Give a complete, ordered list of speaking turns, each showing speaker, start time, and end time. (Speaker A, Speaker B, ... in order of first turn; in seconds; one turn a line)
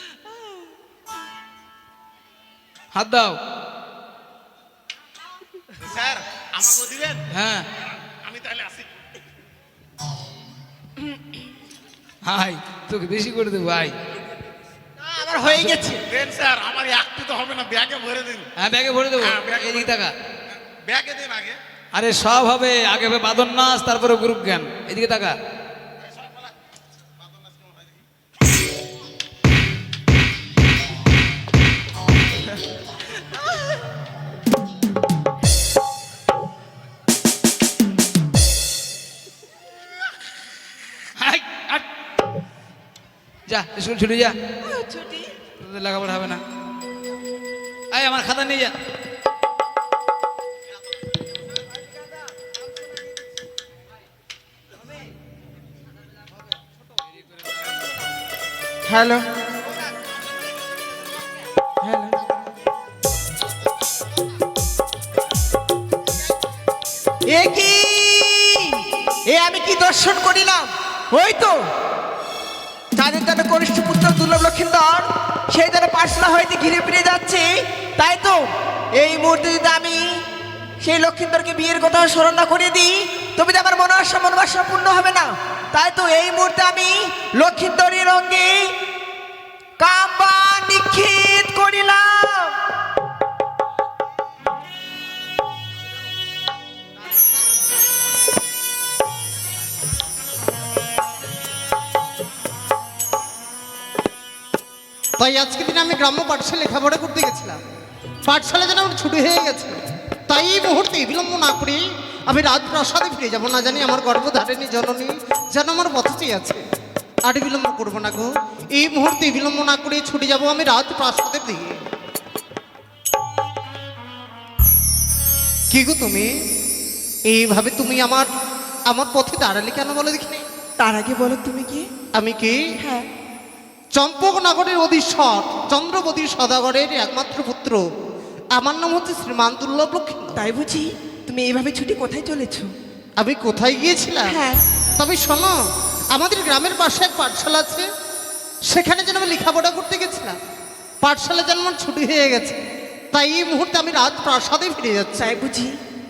Speaker A: 3.0-3.4
Speaker B: 5.8-7.2
Speaker A: 7.3-7.7
Speaker B: 8.2-8.9
Speaker A: 12.3-13.9
Speaker C: 15.0-16.0
Speaker A: 15.5-15.8
Speaker B: 16.1-18.5
Speaker A: 18.6-20.1
Speaker B: 19.2-19.9
Speaker B: 20.9-21.6
Speaker A: 22.0-25.4
Speaker B: 26.0-26.5
Speaker B: 27.2-28.0
Speaker A: 41.2-41.9
Speaker A: 43.5-44.4
Speaker C: 44.7-45.3
Speaker A: 45.6-46.4
Speaker A: 47.9-48.7
Speaker C: 58.9-59.2
Speaker C: 61.8-62.2
Speaker C: 67.3-68.7
Speaker C: 69.3-71.6
Speaker C: 73.0-78.4
Speaker C: 79.0-80.0
Speaker C: 80.8-88.7
Speaker C: 89.8-92.6
Speaker D: 105.2-107.6
Speaker D: 108.3-116.6
Speaker D: 117.3-121.8
Speaker D: 125.7-126.3
Speaker D: 127.3-128.3
Speaker D: 128.9-130.4
Speaker C: 130.8-131.9
Speaker D: 132.2-132.7
Speaker C: 132.8-133.1
Speaker D: 133.9-137.8
Speaker D: 138.6-140.4
Speaker C: 140.4-142.7
Speaker D: 143.2-144.4
Speaker C: 144.3-144.6
Speaker D: 145.0-145.6
Speaker D: 146.1-147.9
Speaker D: 148.7-150.4
Speaker D: 151.0-152.6
Speaker D: 153.1-155.2
Speaker C: 155.2-155.7